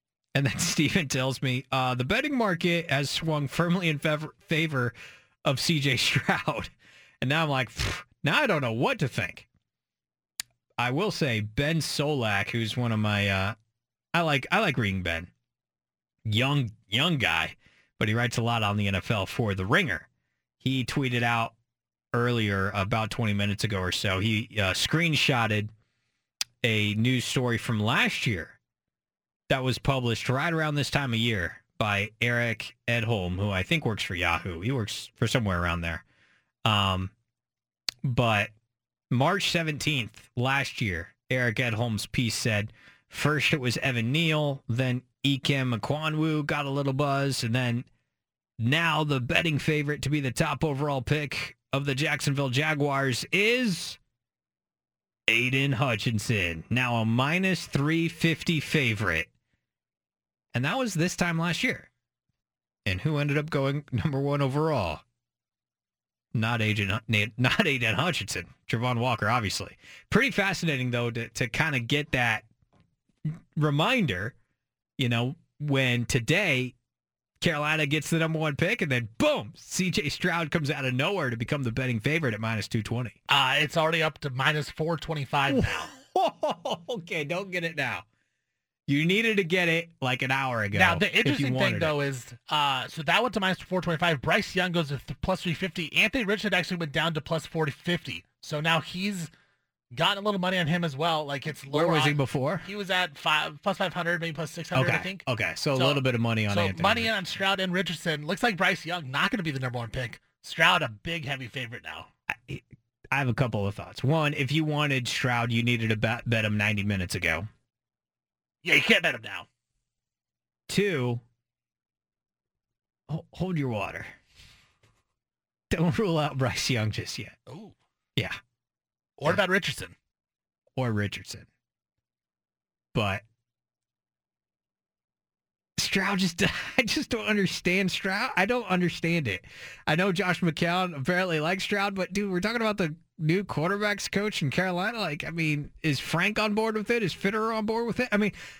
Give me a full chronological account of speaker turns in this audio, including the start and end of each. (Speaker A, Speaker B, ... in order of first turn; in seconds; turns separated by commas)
Speaker A: 0.3-9.5, Speaker A: 10.8-13.6, Speaker A: 14.1-15.3, Speaker A: 16.2-20.1, Speaker A: 20.6-21.5, Speaker A: 22.1-25.7, Speaker A: 26.6-28.6, Speaker A: 29.5-36.0, Speaker A: 36.6-37.1, Speaker A: 38.0-38.5, Speaker A: 39.1-47.9, Speaker A: 48.6-54.0, Speaker A: 55.3-59.3, Speaker A: 60.5-61.9, Speaker A: 62.9-65.0, Speaker A: 66.3-72.5, Speaker A: 73.3-74.3, Speaker A: 75.0-76.8, Speaker A: 77.4-83.2, Speaker B: 83.3-85.9, Speaker A: 85.5-88.1, Speaker A: 88.9-92.0, Speaker B: 90.7-99.3, Speaker B: 99.9-105.2, Speaker A: 101.7-102.7, Speaker A: 104.7-107.1, Speaker B: 105.8-112.1, Speaker A: 112.3-117.5, Speaker B: 118.6-119.5, Speaker A: 120.7-121.2, Speaker A: 123.1-124.2, Speaker A: 125.7-127.4, Speaker B: 127.5-127.8, Speaker B: 129.2-129.9, Speaker A: 130.8-131.5, Speaker A: 132.9-133.2, Speaker A: 135.8-148.3